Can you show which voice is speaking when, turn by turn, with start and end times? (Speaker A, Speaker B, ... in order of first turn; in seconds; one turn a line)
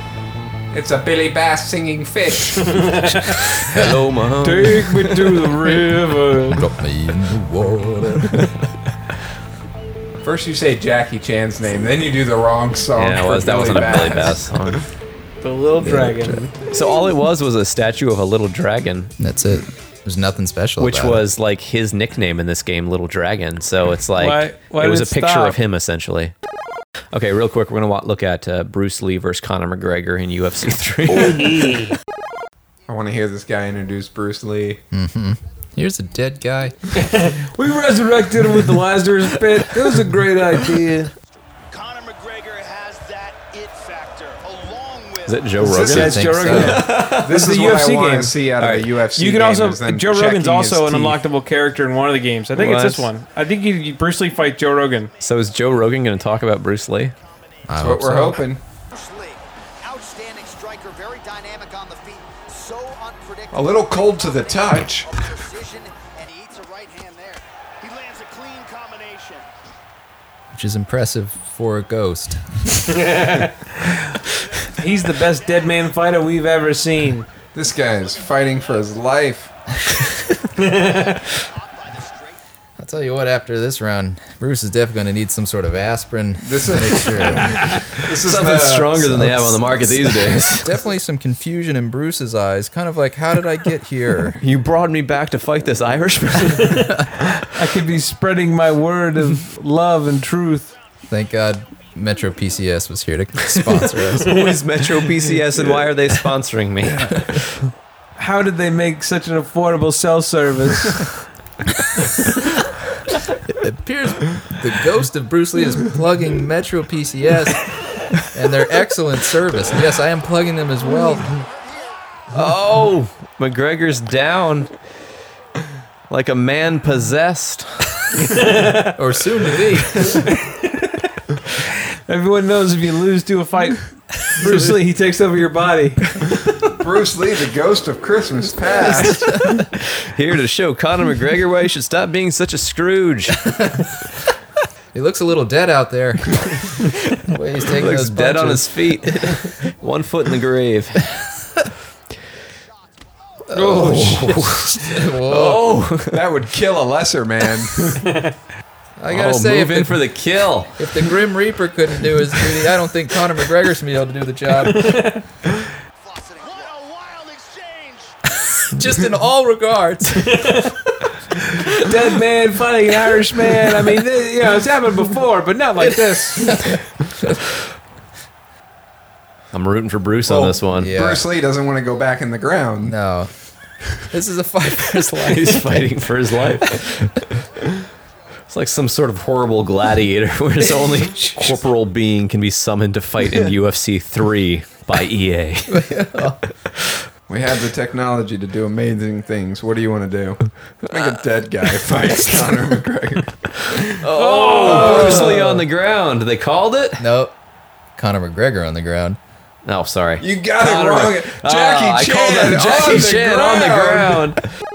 Speaker A: 0.7-2.8
Speaker B: 2.8-3.4
Speaker C: 3.7-5.5
Speaker B: 4.4-6.6
Speaker D: 6.5-8.6
Speaker A: 10.2-14.5
Speaker C: 12.9-14.8
Speaker B: 15.4-16.5
Speaker D: 15.8-16.5
Speaker C: 16.7-19.1
Speaker D: 19.2-21.3
Speaker C: 20.8-26.3
Speaker B: 24.2-25.6
Speaker C: 27.1-31.6
Speaker B: 31.1-31.9
Speaker A: 32.9-34.8
Speaker D: 34.9-36.8
Speaker B: 36.9-41.1
Speaker E: 41.7-45.7
Speaker C: 45.2-47.4
Speaker A: 45.7-51.2
Speaker B: 45.7-48.4
Speaker D: 45.8-46.9
Speaker C: 48.6-48.9
Speaker B: 49.1-55.1
Speaker C: 52.5-53.1
Speaker C: 55.2-57.1
Speaker E: 57.1-57.6
Speaker D: 57.7-58.4
Speaker A: 57.8-58.6
Speaker E: 58.9-69.5
Speaker A: 63.5-65.1
Speaker D: 70.5-72.9
Speaker B: 72.9-73.9
Speaker B: 74.7-77.3
Speaker A: 77.5-79.5
Speaker B: 80.6-81.2
Speaker E: 81.5-82.3
Speaker D: 82.8-87.8
Speaker A: 86.4-89.2
Speaker C: 88.2-90.7
Speaker D: 89.0-94.4
Speaker C: 94.4-96.9
Speaker B: 96.6-100.8
Speaker D: 101.1-104.4
Speaker C: 104.2-107.6
Speaker D: 107.0-107.4
Speaker B: 108.2-111.1
Speaker D: 113.5-121.3
Speaker C: 122.3-124.7
Speaker C: 126.1-127.9
Speaker B: 128.3-128.9
Speaker D: 128.9-130.3
Speaker B: 130.2-130.9
Speaker B: 131.7-136.2
Speaker A: 136.8-139.3
Speaker D: 138.7-139.6
Speaker C: 139.8-143.5
Speaker D: 143.4-143.9
Speaker D: 144.9-149.6
Speaker C: 147.7-151.2
Speaker D: 153.5-155.8
Speaker B: 153.5-154.3
Speaker C: 153.6-156.2
Speaker A: 155.5-157.9
Speaker B: 158.0-158.3
Speaker D: 159.0-160.1
Speaker C: 159.1-160.8
Speaker D: 160.8-165.0
Speaker B: 164.6-165.2
Speaker E: 166.0-168.1
Speaker D: 168.7-170.7
Speaker B: 170.3-170.7
Speaker B: 171.6-176.5
Speaker D: 175.8-177.3
Speaker C: 179.5-180.9
Speaker A: 180.2-182.9
Speaker D: 180.8-181.3
Speaker D: 182.8-183.3
Speaker D: 184.1-185.8
Speaker C: 185.1-187.2
Speaker C: 188.5-196.0
Speaker D: 195.7-196.4
Speaker A: 197.3-203.9
Speaker C: 200.9-201.1
Speaker C: 203.9-207.0
Speaker B: 204.1-205.6
Speaker A: 204.5-205.5
Speaker D: 207.0-207.3
Speaker D: 208.0-209.2
Speaker C: 209.6-214.4
Speaker A: 210.2-214.4